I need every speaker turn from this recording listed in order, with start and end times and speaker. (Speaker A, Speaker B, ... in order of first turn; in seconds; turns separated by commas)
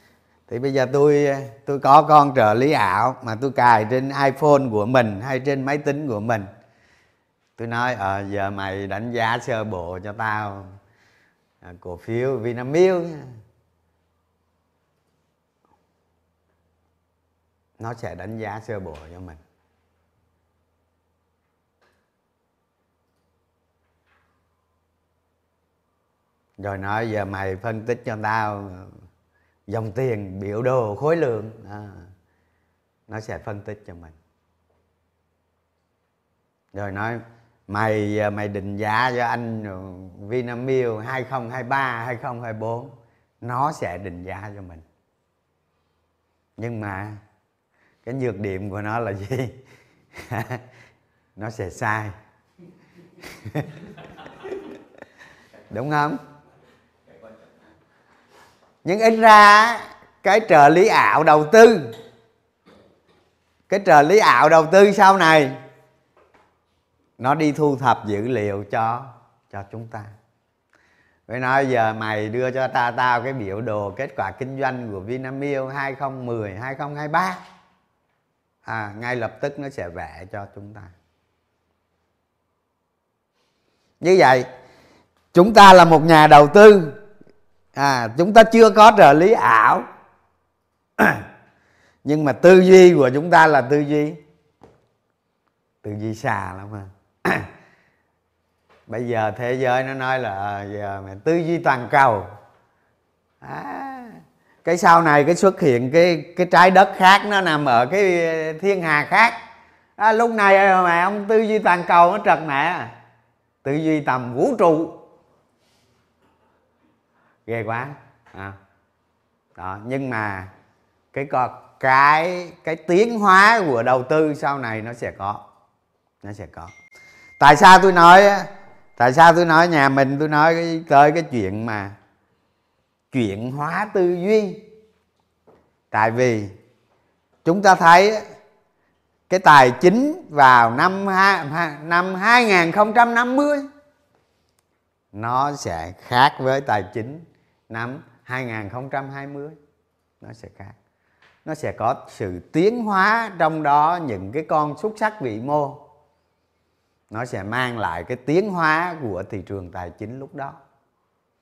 Speaker A: 0.5-6.5, Speaker A: 7.6-10.7, Speaker A: 11.6-13.3, Speaker A: 17.8-19.4, Speaker A: 26.6-28.9, Speaker A: 29.7-32.1, Speaker A: 33.1-34.1, Speaker A: 36.7-44.8, Speaker A: 46.6-47.2, Speaker A: 48.0-49.5, Speaker A: 50.1-50.6, Speaker A: 51.4-52.1, Speaker A: 53.4-53.7, Speaker A: 55.7-56.2, Speaker A: 58.8-61.9, Speaker A: 63.7-65.6, Speaker A: 67.2-70.1, Speaker A: 71.3-77.4, Speaker A: 78.6-80.9, Speaker A: 84.0-84.5, Speaker A: 85.3-87.0, Speaker A: 87.8-89.8, Speaker A: 91.0-91.2, Speaker A: 92.0-94.2, Speaker A: 95.8-97.5, Speaker A: 98.9-102.3, Speaker A: 103.4-109.4, Speaker A: 110.0-112.9, Speaker A: 113.6-115.0, Speaker A: 117.5-118.6, Speaker A: 119.6-120.5, Speaker A: 121.1-125.4, Speaker A: 126.2-126.7, Speaker A: 127.4-131.9, Speaker A: 133.1-134.6, Speaker A: 135.9-136.5, Speaker A: 137.4-138.2, Speaker A: 139.3-143.7, Speaker A: 145.1-149.6, Speaker A: 150.2-150.8, Speaker A: 151.4-155.8, Speaker A: 157.1-160.6